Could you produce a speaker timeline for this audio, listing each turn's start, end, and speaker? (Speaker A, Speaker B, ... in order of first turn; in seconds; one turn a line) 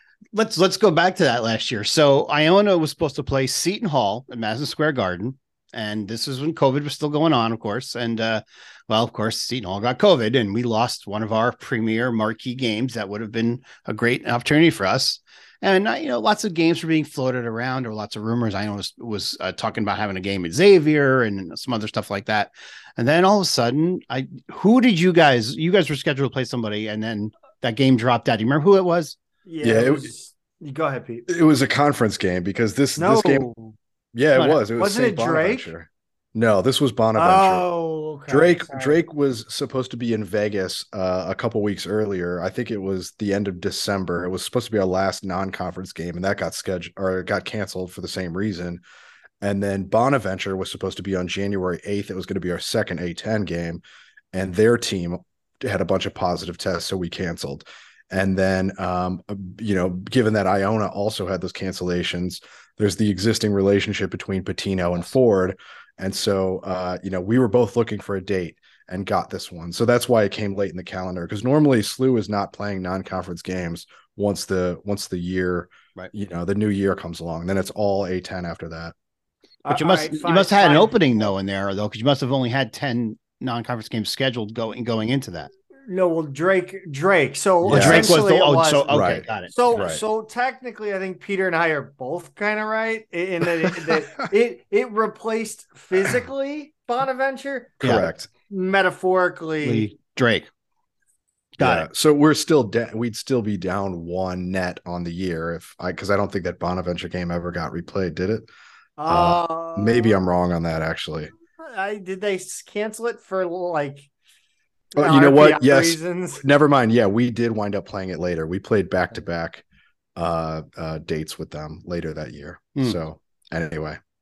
Speaker A: 0.3-29.2
Speaker B: 29.5-31.3
Speaker C: 29.6-30.1
Speaker C: 31.3-33.5
Speaker B: 33.0-33.8
Speaker C: 34.1-37.6
Speaker B: 34.4-35.7
Speaker B: 37.1-39.0
Speaker C: 38.3-48.8
Speaker C: 49.4-53.8
Speaker C: 54.3-79.0
Speaker B: 79.6-81.3
Speaker A: 79.7-85.5
Speaker B: 85.9-88.9
Speaker C: 87.6-88.2
Speaker A: 87.7-89.8
Speaker C: 88.9-90.0
Speaker B: 89.5-99.9
Speaker C: 97.8-98.3
Speaker A: 97.8-98.1
Speaker A: 99.6-100.5
Speaker A: 101.6-101.9
Speaker C: 101.6-108.5
Speaker B: 109.0-110.2
Speaker C: 109.1-111.3
Speaker B: 111.6-114.1
Speaker B: 114.9-116.4
Speaker C: 115.0-119.6
Speaker C: 120.2-124.0